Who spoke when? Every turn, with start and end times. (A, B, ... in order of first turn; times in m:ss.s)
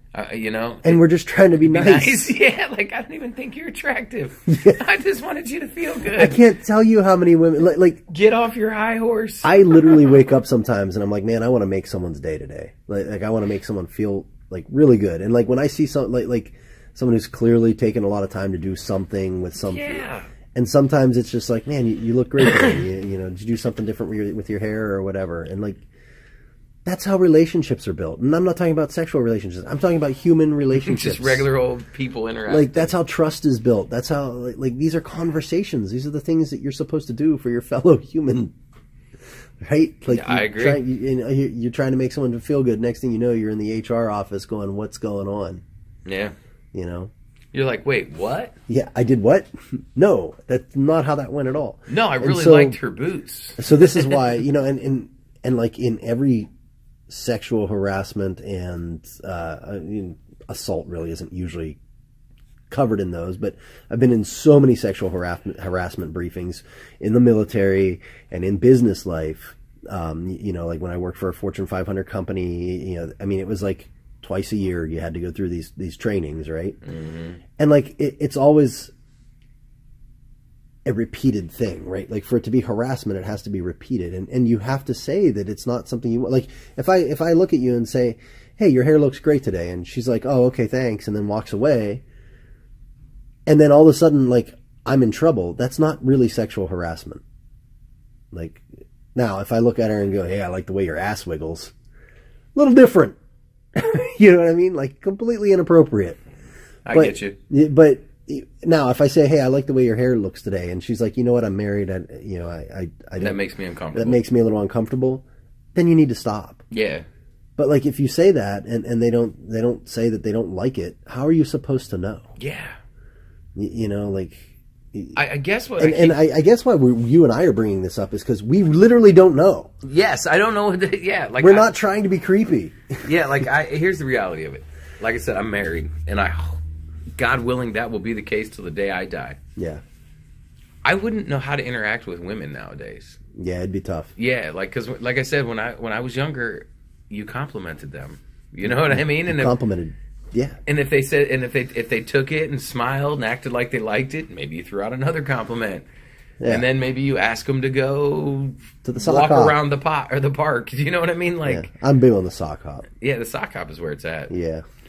0:00.1-0:01.0 A
0:00.8-0:02.3 B
0:01.6-0:06.4 A
0:04.5-0:04.8 B
0:06.1-0:08.0 B
0:08.1-0:10.1 A
0:09.4-0:20.0 B
0:19.6-0:20.3 A
0:20.5-0:25.8 B
0:26.8-0:31.5 B
0:30.8-0:32.9 A
0:32.5-0:38.5 B
0:39.6-0:45.6 B
0:40.1-0:40.8 A
0:46.0-0:46.3 A
0:46.7-0:47.1 B
0:47.5-0:48.5 A
0:48.7-0:52.8 B
0:51.9-0:54.2 A
0:53.6-0:56.5 B
0:57.1-1:01.8 B
1:02.7-1:16.8 B
1:16.8-1:17.4 A
1:17.6-1:18.9 B
1:20.8-1:32.0 B
1:33.5-1:37.2 B
1:38.3-1:41.7 B
1:42.5-1:43.2 B
1:43.7-1:46.2 B
1:46.8-1:47.4 A
1:46.9-1:53.4 B
1:53.2-1:54.2 A
1:53.9-1:55.2 B
1:55.7-1:56.6 B
1:56.7-1:57.0 A
1:57.6-2:02.3 B
2:02.4-2:02.8 A
2:03.6-2:05.2 B
2:05.1-2:06.2 A
2:05.8-2:09.7 B
2:09.8-2:11.7 A
2:11.4-2:13.0 B
2:13.0-2:16.6 A
2:17.1-2:19.4 A
2:19.6-2:19.8 B
2:20.8-2:23.2 A
2:23.4-2:24.1 B
2:24.2-2:29.6 A
2:28.9-2:30.6 B
2:30.6-2:35.8 A
2:36.5-2:41.7 A
2:38.8-2:39.6 B
2:41.4-2:42.9 B
2:43.0-2:44.3 A
2:44.3-2:44.6 B